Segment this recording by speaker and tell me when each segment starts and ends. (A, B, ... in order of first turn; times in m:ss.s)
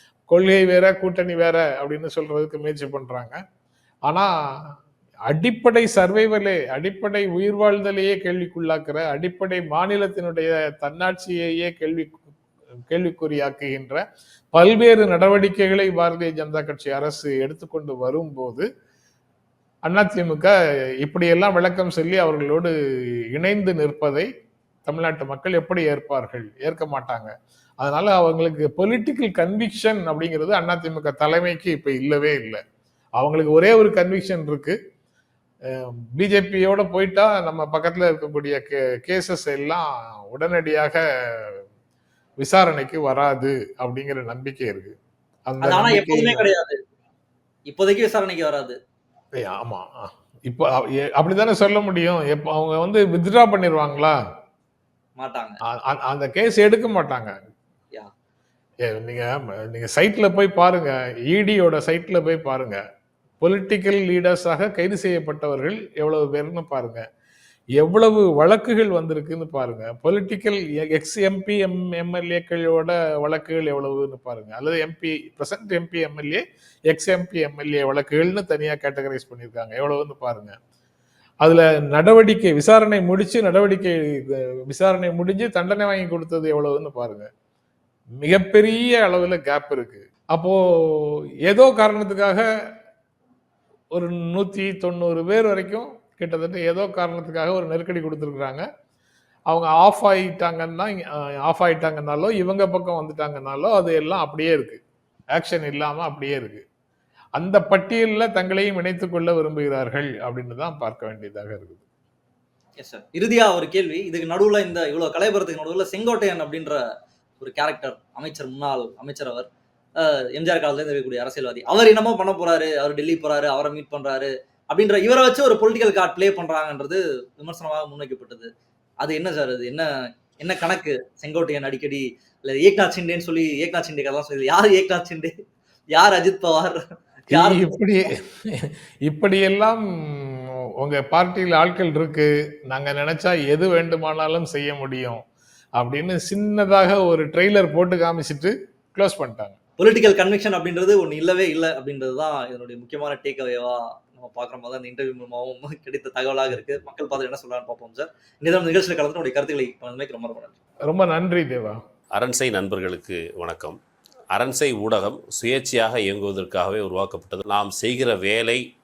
0:00.3-0:03.4 A
0:04.1-0:04.7 A
0:05.3-0:12.2 A
0:12.9-0:18.7 A
0:19.8-0:20.5 A
0:21.0-0:22.7 A
0:23.3-0:24.3 A
0:24.8-0:32.6 A
0:33.2-0:34.8 A
0:35.7-0:41.6 A
0:42.4-0:44.9 A
0:45.5-0:46.4 A
0:45.6-0:46.8 B
0:47.7-0:48.8 B
0:49.4-0:54.2 A
0:55.2-0:55.6 B
0:55.7-0:57.3 A
0:58.8-1:02.8 A
1:03.4-1:07.0 A
1:07.8-1:20.5 A
1:21.4-1:27.3 A
1:28.2-1:32.4 A
1:33.9-1:38.6 A
1:39.5-1:44.8 A
1:45.4-1:46.6 A
1:47.4-1:51.8 A
1:52.8-1:56.8 B
1:57.4-1:59.5 B
2:00.0-2:08.5 B
2:09.0-2:09.9 B
2:10.4-2:15.3 B
2:15.9-2:17.7 B
2:17.3-2:25.2 A
2:25.8-2:29.6 A
2:29.8-2:40.6 B
2:40.9-2:41.8 A
2:42.1-2:43.8 C
2:44.3-2:48.6 C